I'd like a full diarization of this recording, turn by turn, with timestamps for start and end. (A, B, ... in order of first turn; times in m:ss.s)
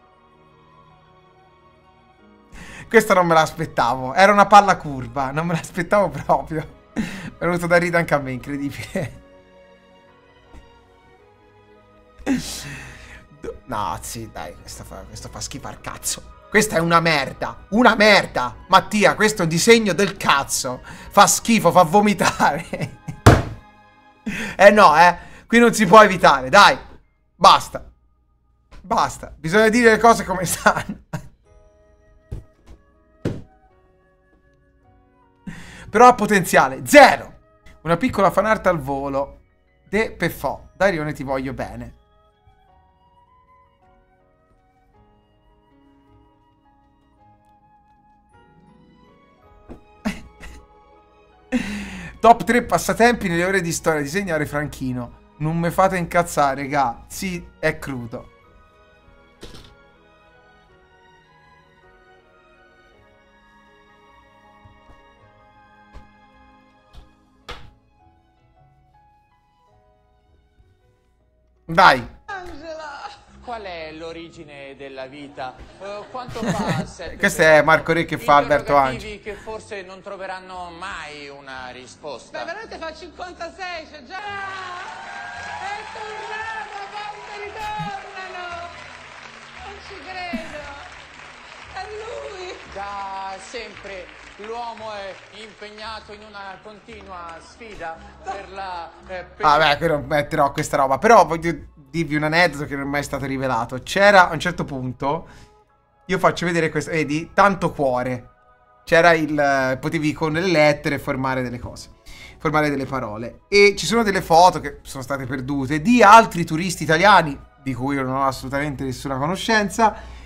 0:02.9-0:09.2 A
0:12.3-0:12.8 A
0:13.3-0:23.2 A
0:24.3-0:26.8 A
0:27.4-0:27.9 A
0:28.8-0:31.2 A
0:35.9-0:41.9 A
0:51.5-0:58.3 A
1:11.7-1:12.1 A
1:13.4-1:22.6 B
1:16.6-1:19.1 A
1:22.3-1:24.9 C
1:25.6-1:28.7 C
1:29.6-1:30.8 C
1:31.7-1:32.6 C
1:32.7-1:39.8 B
1:39.4-1:45.3 A
1:46.1-1:48.3 A
1:48.8-2:00.0 A